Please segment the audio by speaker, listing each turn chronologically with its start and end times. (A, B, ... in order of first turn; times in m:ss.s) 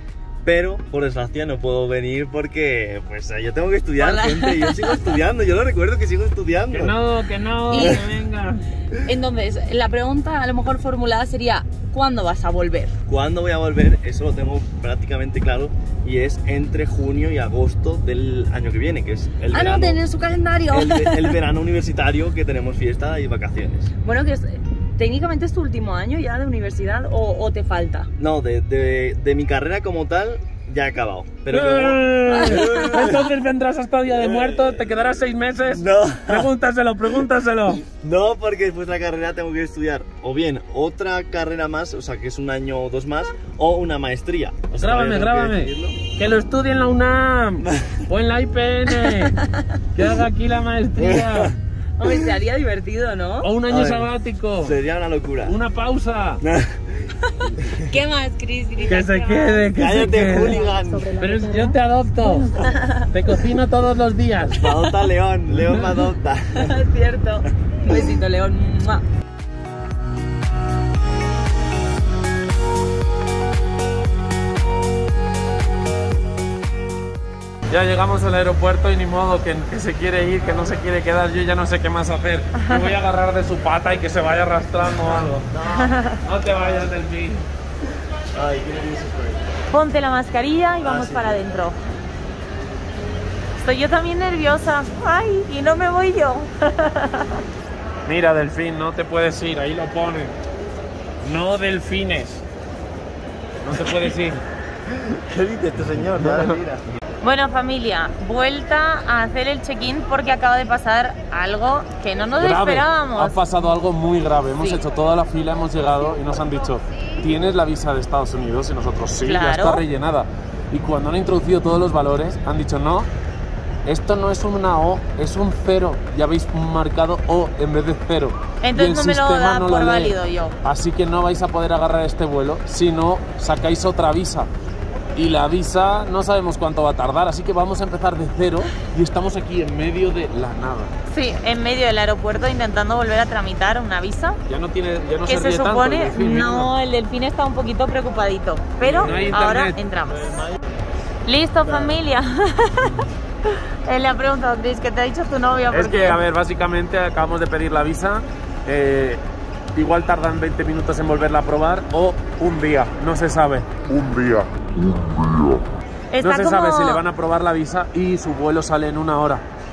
0:00.4-0:07.0 A
0:04.0-0:05.2 B
0:06.7-0:08.6 C
0:07.7-0:08.1 B
0:07.7-0:08.0 A
0:08.9-0:13.0 B
0:13.1-0:20.0 A
0:19.5-0:21.4 B
0:20.7-0:23.9 A
0:24.0-0:28.1 B
0:28.2-0:33.3 A
0:31.5-0:37.8 C
0:32.4-0:33.0 B
0:34.1-0:35.0 A
0:35.7-0:36.5 A
0:37.8-0:46.0 A
0:44.8-0:49.4 C
0:47.7-0:48.0 A
0:49.0-0:49.6 B
0:50.0-0:51.5 C
0:51.0-0:51.6 A
0:52.0-0:53.5 B
0:53.4-0:54.8 C
0:53.7-0:54.1 A
0:54.6-0:55.6 A
0:55.4-0:56.4 C
0:56.4-0:57.8 A
0:57.3-1:03.4 B
0:58.9-1:00.6 C
0:59.8-1:01.1 A
1:01.2-1:02.5 C
1:03.1-1:04.6 C
1:04.5-1:06.8 A
1:04.7-1:05.0 B
1:06.6-1:09.0 B
1:17.7-1:25.5 C
1:25.0-1:26.9 A
1:25.8-1:26.2 B
1:26.2-1:27.5 C
1:28.3-1:29.5 A
1:29.7-1:31.8 B
1:30.8-1:31.4 A
1:33.6-1:37.4 B
1:38.1-1:40.4 C
1:41.2-1:42.4 C
1:43.6-1:44.4 C
1:44.9-1:46.8 A
1:46.2-1:46.6 C
1:47.2-1:53.4 B
1:52.4-2:03.1 C
1:59.2-1:59.8 B
2:03.8-2:14.5 C
2:08.6-2:10.6 B
2:15.2-2:20.9 C
2:21.1-2:24.4 B
2:24.5-2:26.7 C
2:25.3-2:30.4 B
2:28.8-2:29.8 C
2:28.8-2:29.4 A
2:30.1-2:30.6 A
2:31.3-2:36.2 B
2:31.6-2:32.0 A
2:35.7-2:39.2 C
2:39.8-2:45.6 C
2:46.1-2:47.0 B
2:46.2-2:49.4 C